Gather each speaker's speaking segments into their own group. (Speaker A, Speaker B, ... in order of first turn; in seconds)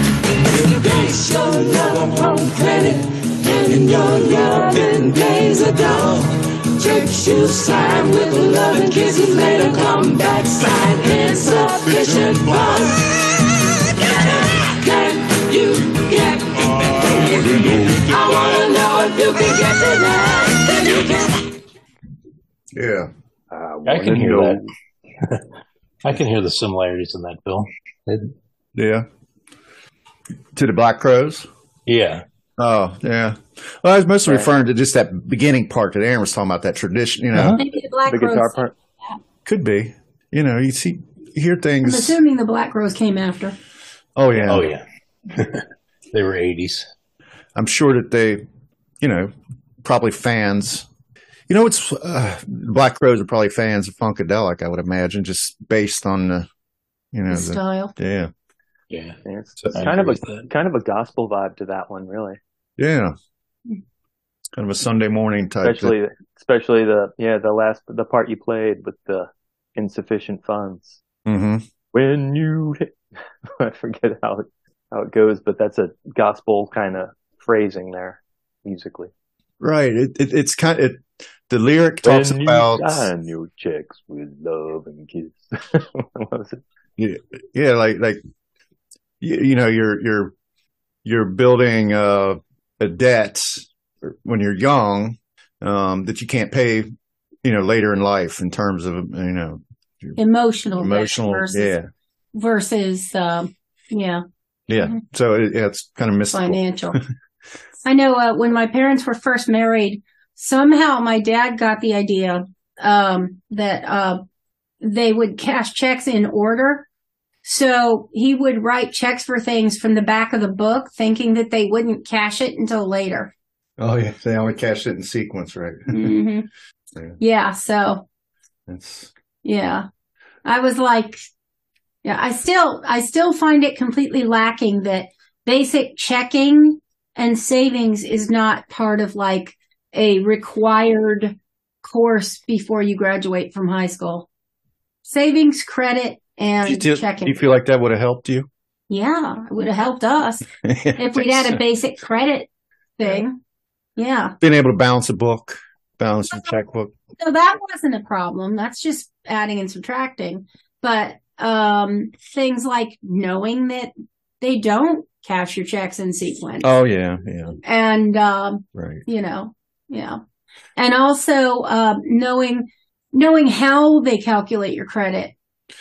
Speaker A: 0.4-13.2, 14.0-21.4
Speaker B: 22.8-23.1, 28.8-29.1, 30.6-31.5, 32.6-37.6, 39.5-42.2, 44.2-44.7, 47.6-48.5, 49.0-49.3, 49.8-50.9, 51.5-56.5, 57.1-58.3, 62.8-63.1, 64.5-66.0, 71.3-71.7, 79.6-83.1, 87.0-88.2, 89.2-90.3, 91.0-96.9, 97.4-100.2, 100.8-101.9, 104.7-107.0, 123.8-126.1, 128.7-129.1, 146.6-148.5, 150.6-151.6, 154.4-156.9, 166.6-167.6, 168.8-169.0
Speaker C: 23.5-24.7, 34.3-34.5, 38.1-38.7, 59.2-62.4, 65.6-71.0, 71.9-79.1, 82.0-86.6
Speaker D: 23.9-24.6, 26.0-28.3, 31.9-32.2, 37.3-37.6, 44.4-46.9, 58.9-59.2, 59.7-60.5
Speaker E: 37.6-39.2, 41.8-43.6, 57.3-57.9, 100.2-101.8, 102.3-104.2, 104.8-105.0, 106.3-107.0, 107.8-114.2, 114.8-116.9, 117.4-123.3, 125.9-126.5, 127.2-128.1, 129.4-129.9, 130.4-131.2, 132.0-144.3, 145.0-147.4, 148.9-153.4, 154.0-154.4, 157.2-166.7, 167.6-170.2, 170.8-175.3